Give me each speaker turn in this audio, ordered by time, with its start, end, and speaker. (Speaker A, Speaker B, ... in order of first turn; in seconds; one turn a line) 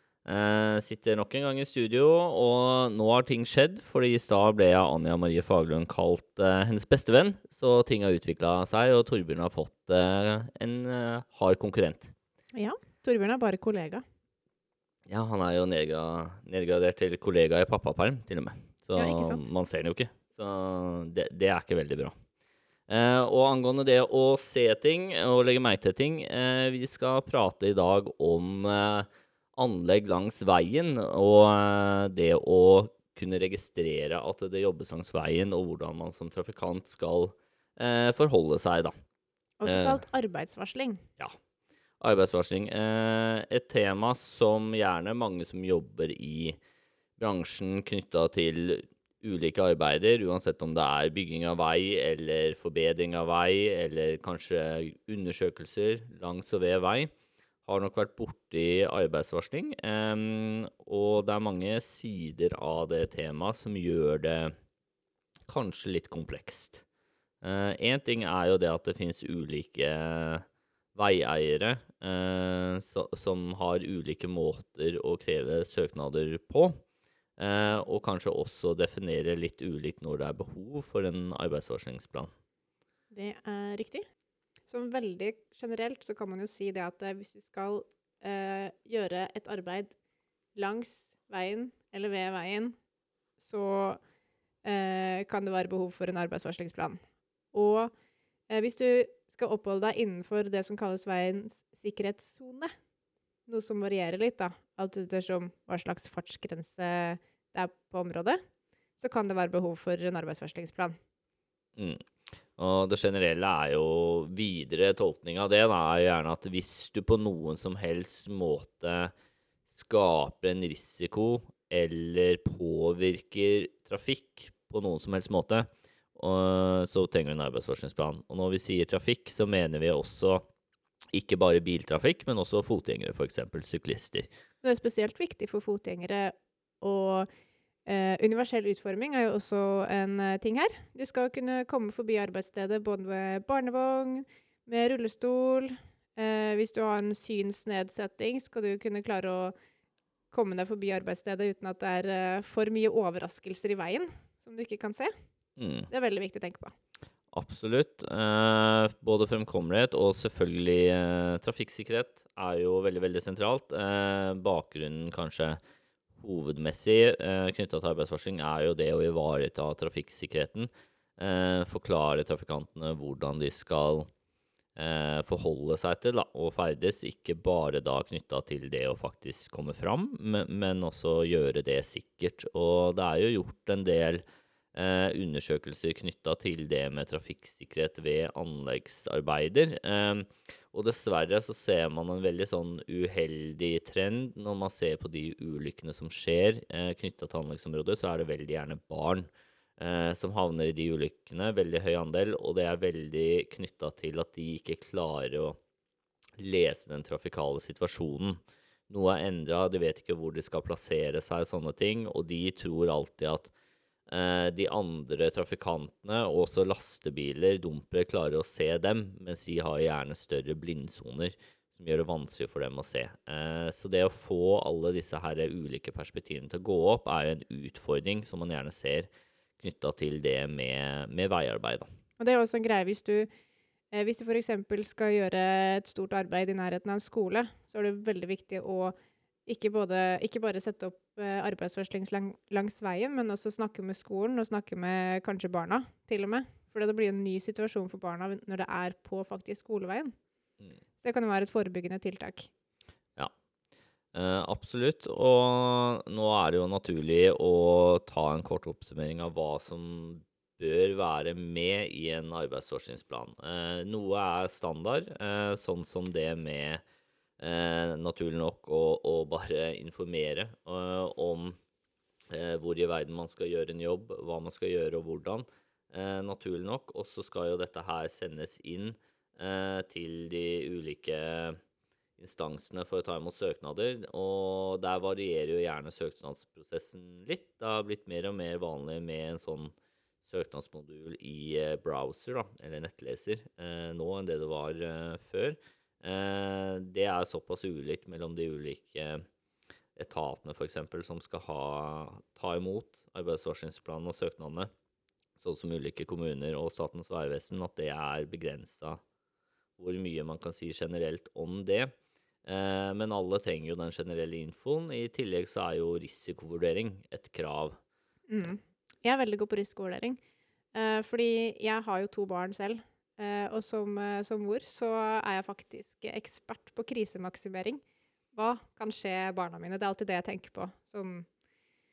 Speaker A: 0.2-12.1
Speaker B: 12.5-14.0
Speaker A: 15.1-22.1
Speaker B: 18.9-19.5
Speaker A: 22.9-38.9
Speaker B: 39.6-41.0
Speaker A: 39.6-40.0
Speaker A: 42.0-46.6
Speaker A: 47.2-57.1
Speaker A: 57.7-64.5
Speaker A: 65.5-66.8
Speaker A: 67.4-76.7
Speaker A: 77.4-82.3
Speaker B: 83.1-84.0
Speaker B: 84.7-89.9
Speaker B: 90.5-92.7
Speaker B: 93.4-94.0
Speaker B: 94.6-97.0
Speaker B: 97.5-97.9
Speaker B: 98.5-102.7
Speaker B: 103.5-108.4
Speaker B: 109.0-111.0
Speaker A: 111.8-119.1
Speaker A: 119.7-130.4
Speaker A: 131.1-134.3
Speaker B: 134.6-137.3
Speaker B: 137.8-149.5
Speaker B: 150.3-155.1
Speaker A: 155.6-155.9
Speaker B: 155.9-156.7
Speaker A: 157.3-165.6
Speaker A: 166.2-174.1
Speaker A: 174.8-184.2
Speaker A: 184.7-205.6
Speaker A: 206.4-213.5
Speaker A: 214.1-231.9
Speaker B: 232.2-233.3
Speaker B: 233.9-238.9
Speaker B: 239.4-250.1
Speaker B: 251.0-252.5
Speaker A: 254.1-266.8
Speaker A: 267.4-271.6
Speaker A: 272.3-281.6
Speaker A: 282.2-299.2
Speaker A: 299.9-304.7
Speaker A: 305.4-309.0
Speaker A: 309.8-311.9
Speaker A: 312.4-317.8
Speaker B: 318.3-320.2
Speaker B: 320.7-327.8
Speaker B: 328.3-331.3